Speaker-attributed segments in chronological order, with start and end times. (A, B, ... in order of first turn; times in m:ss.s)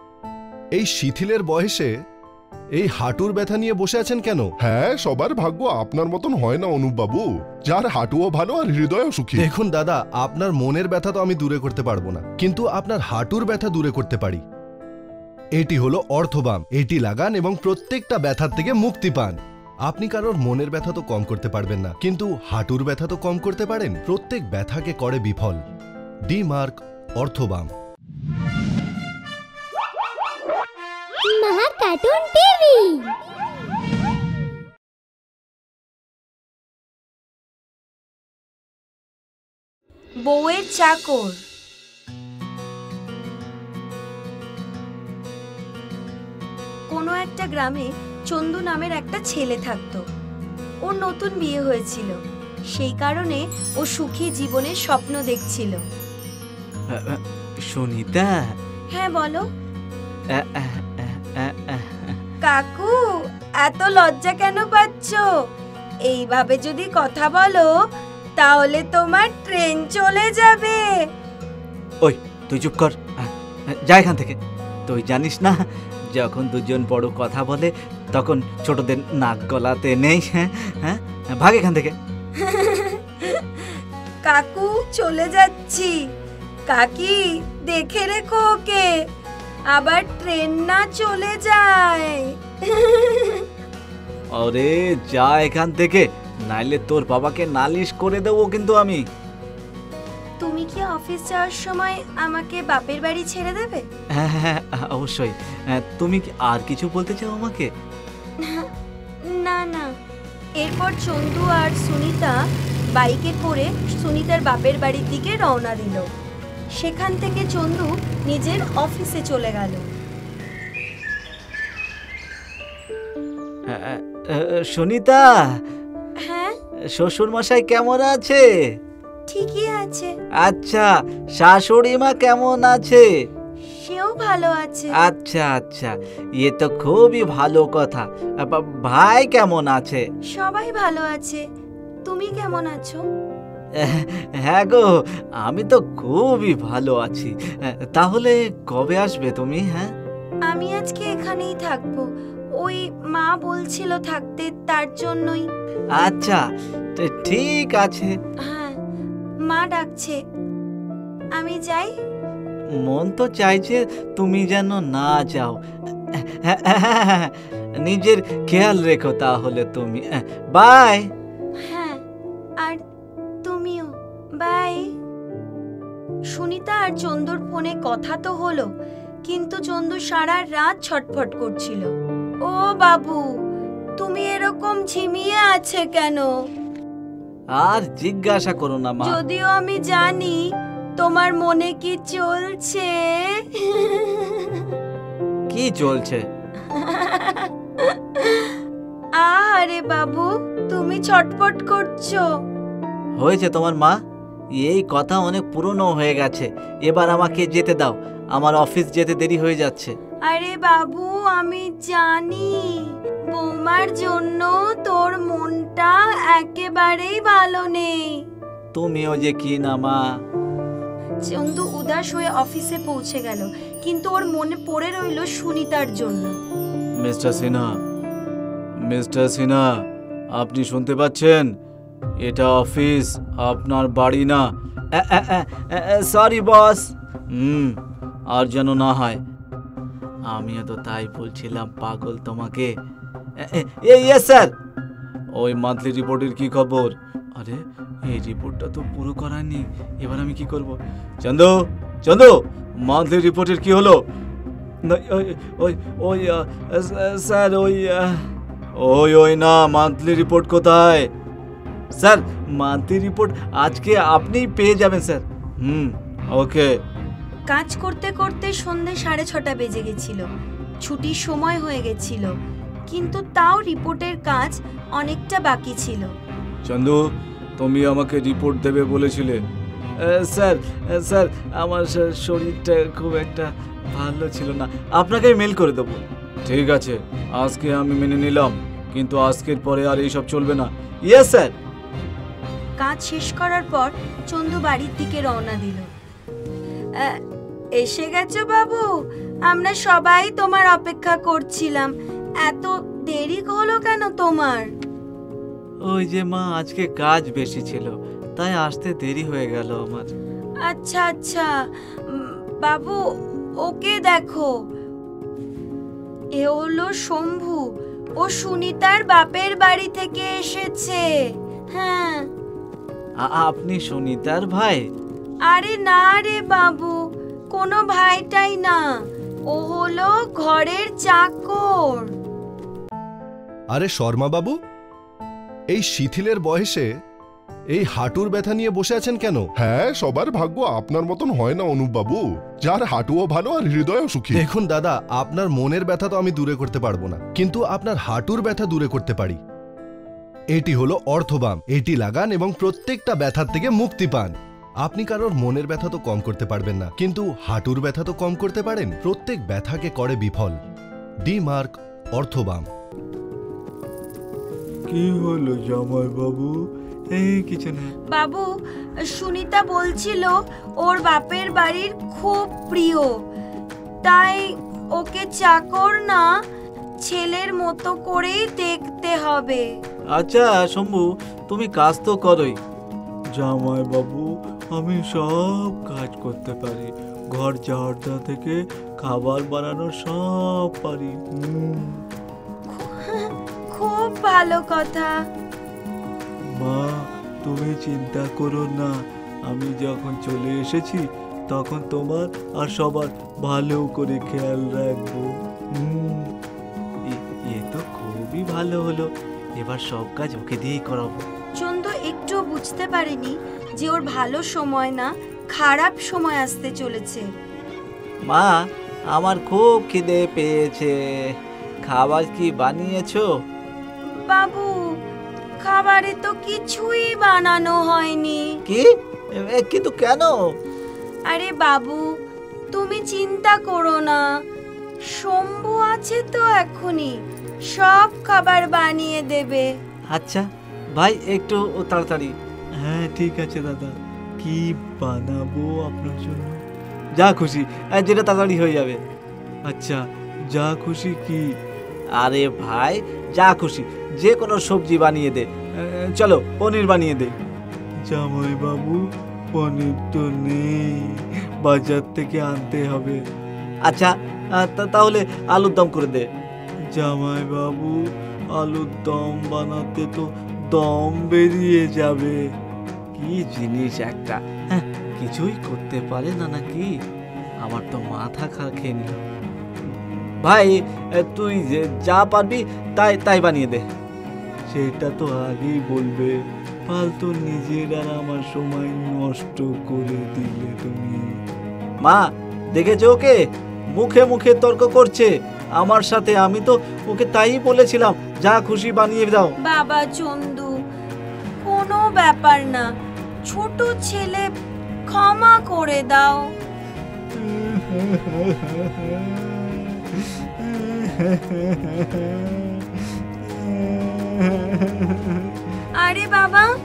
0:00.7-0:01.9 A
0:02.8-0:04.5 A
0:04.6-0:09.5 B
0:09.4-0:14.4 A
0:15.6-0:25.6 A
0:26.3-0:27.7 A
0:31.2-0:33.2 C
0:40.2-0:41.4 D
0:46.9-0:50.0 D
0:50.8-0:52.2 D
0:52.7-0:55.8 D
0:56.9-0:58.3 E
0:58.9-0:59.4 D
1:00.3-1:02.1 E
1:02.4-1:03.0 D
1:03.6-1:05.2 D
1:06.0-1:07.7 D
1:08.4-1:10.9 D
1:12.0-1:13.3 E
1:13.8-1:21.9 E
1:22.4-1:23.7 D
1:24.2-1:26.0 D
1:26.7-1:28.9 D
1:29.7-1:33.4 D
1:34.3-1:39.0 E
1:40.4-1:43.8 D
1:44.1-1:47.7 E
1:48.4-1:48.7 D
1:49.3-1:49.9 D
1:50.6-1:52.4 D
1:52.9-1:56.0 D
1:56.8-1:59.9 D
2:03.7-2:05.2 E
2:06.2-2:06.5 D
2:07.0-2:08.4 E
2:09.3-2:10.1 D
2:10.4-2:13.0 E
2:13.7-2:14.9 D
2:15.0-2:20.0 E
2:20.3-2:21.4 D
2:22.0-2:23.0 D
2:23.8-2:24.9 E
2:25.4-2:29.9 E
2:30.5-2:32.0 D
2:32.6-2:35.5 D
2:36.0-2:36.4 E
2:37.0-2:38.1 E
2:38.4-2:38.8 D
2:39.4-2:40.2 D
2:41.4-2:41.9 D
2:42.8-2:45.6 E
2:46.1-2:51.0 E
2:51.6-2:52.0 D
2:53.4-2:54.9 D
2:56.3-2:58.7 D
2:59.2-3:01.9 D
3:02.4-3:03.2 D
3:04.0-3:06.3 D
3:07.5-3:09.2 E
3:09.0-3:10.4 D
3:11.0-3:14.6 D
3:15.5-3:16.2 E
3:16.7-3:18.6 D
3:19.2-3:22.2 D
3:23.2-3:24.0 E
3:24.6-3:29.9 E
3:30.2-3:38.2 D
3:38.7-3:40.0 E
3:41.2-3:46.4 D
3:47.0-3:47.8 E
3:48.8-3:49.7 E
3:50.3-3:51.5 E
3:52.2-3:57.8 E
3:58.3-3:59.2 E
4:00.3-4:02.7 E
4:03.4-4:04.5 E
4:05.3-4:14.0 E
4:14.8-4:18.2 E
4:18.8-4:21.1 E
4:21.9-4:26.8 E
4:27.4-4:30.2 D
4:30.8-4:32.3 D
4:32.9-4:36.1 D
4:36.6-4:37.0 E
4:37.6-4:39.4 E
4:40.0-4:51.5 E
4:52.8-4:55.9 D
4:57.8-4:58.9 D
4:59.4-5:01.9 D
5:02.4-5:04.7 D
5:05.8-5:10.1 E
5:10.6-5:11.5 D
5:12.1-5:13.0 D
5:13.6-5:14.5 D
5:16.4-5:17.6 D
5:18.2-5:21.0 D
5:21.7-5:22.3 D
5:23.2-5:24.8 E
5:25.5-5:26.9 D
5:27.5-5:28.9 D
5:29.5-5:32.1 D
5:33.7-5:34.6 A
5:35.7-5:36.9 A
5:37.7-5:39.5 A
5:39.6-5:44.4 B
5:44.3-5:49.4 A
5:50.5-6:00.6 A
6:01.2-6:02.7 A
6:04.9-6:06.5 E
6:07.1-6:07.9 E
6:08.1-6:08.5 D
6:09.0-6:13.1 D
6:14.0-6:16.3 D
6:17.0-6:19.6 D
6:20.1-6:22.6 E
6:23.3-6:32.0 E
6:32.7-6:35.1 D
6:36.6-6:38.9 E
6:39.5-6:46.3 E
6:47.1-6:51.2 E
6:51.6-6:57.2 D
6:58.2-6:58.6 E
6:59.1-7:00.9 E
7:01.8-7:03.2 E
7:04.0-7:04.8 D
7:05.6-7:08.6 D
7:09.4-7:10.3 E
7:11.3-7:12.0 D
7:12.7-7:14.2 D
7:15.1-7:17.2 D
7:17.7-7:19.7 D
7:20.1-7:26.6 E
7:27.2-7:29.0 E
7:29.7-7:31.4 E
7:32.2-7:37.3 E
7:38.0-7:39.0 E
7:39.5-7:43.2 E
7:43.8-7:46.3 E
7:46.9-7:47.9 E
7:48.5-7:52.4 E
7:53.1-7:56.9 E
7:57.6-7:59.2 E
7:59.9-8:03.8 E
8:04.7-8:06.3 E
8:06.9-8:11.3 E
8:12.0-8:13.4 E
8:13.9-8:19.5 E
8:19.6-8:20.7 D
8:21.6-8:22.9 D
8:23.4-8:24.4 D
8:25.1-8:26.5 D
8:27.3-8:35.4 E
8:36.0-8:36.7 D